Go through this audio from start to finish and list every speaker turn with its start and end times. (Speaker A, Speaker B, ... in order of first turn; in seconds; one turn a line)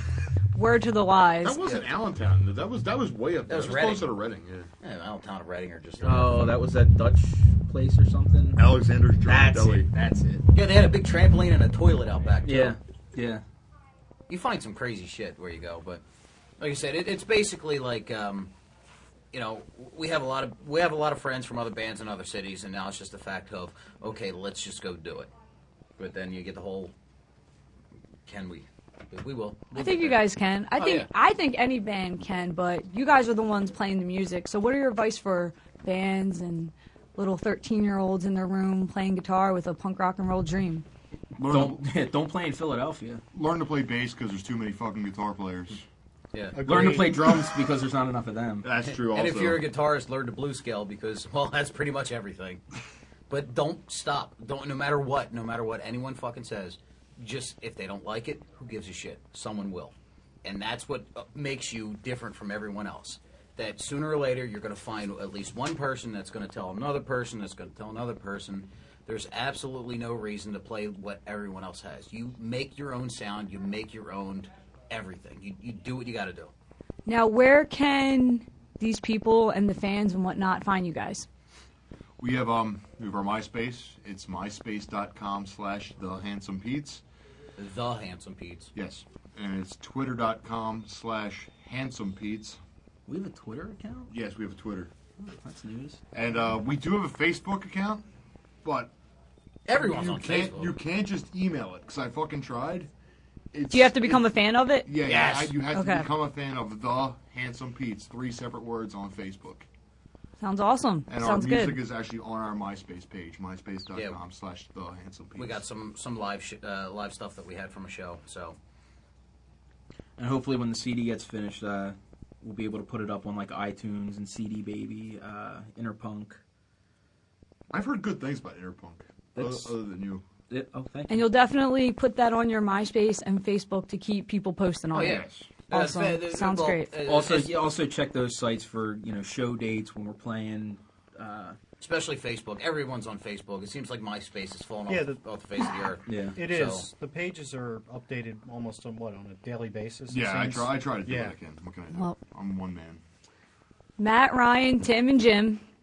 Speaker A: 0.5-1.6
Speaker B: 1.4-4.7
Speaker C: 1.6-1.9
Speaker C: 3.5-4.1
Speaker C: 4.8-6.5
Speaker D: 6.0-8.6
Speaker B: 8.6-9.9
Speaker D: 9.2-10.4
Speaker C: 10.5-12.8
Speaker D: 12.4-13.4
Speaker C: 14.3-16.0
Speaker C: 16.6-18.5
Speaker C: 19.3-25.3
Speaker C: 26.0-26.9
Speaker C: 28.2-30.2
Speaker A: 29.7-40.9
Speaker C: 30.8-31.1
Speaker B: 41.4-41.8
Speaker D: 41.4-43.2
Speaker B: 43.3-45.8
Speaker C: 46.3-46.6
Speaker E: 46.5-47.5
Speaker D: 46.6-48.7
Speaker B: 48.6-49.6
Speaker C: 49.0-52.6
Speaker C: 53.3-76.5
Speaker A: 77.0-81.3
Speaker B: 82.2-87.0
Speaker C: 87.6-88.7
Speaker B: 88.7-92.6
Speaker D: 93.1-94.1
Speaker B: 94.1-94.9
Speaker D: 95.2-96.0
Speaker B: 96.1-98.0
Speaker B: 98.6-98.9
Speaker C: 99.7-100.8
Speaker B: 99.7-102.9
Speaker B: 103.5-109.7
Speaker A: 103.7-105.1
Speaker C: 105.0-105.5
Speaker A: 105.7-106.1
Speaker A: 110.4-111.8
Speaker B: 111.1-115.6
Speaker C: 113.9-114.2
Speaker C: 115.3-118.6
Speaker D: 120.2-126.4
Speaker B: 127.7-130.2
Speaker D: 129.3-129.7
Speaker D: 130.5-131.2
Speaker A: 131.1-137.0
Speaker C: 134.9-137.6
Speaker B: 135.1-135.4
Speaker D: 137.0-141.6
Speaker C: 141.8-146.9
Speaker E: 144.9-145.2
Speaker D: 146.1-146.4
Speaker E: 146.3-151.3
Speaker B: 150.1-153.0
Speaker A: 154.0-155.6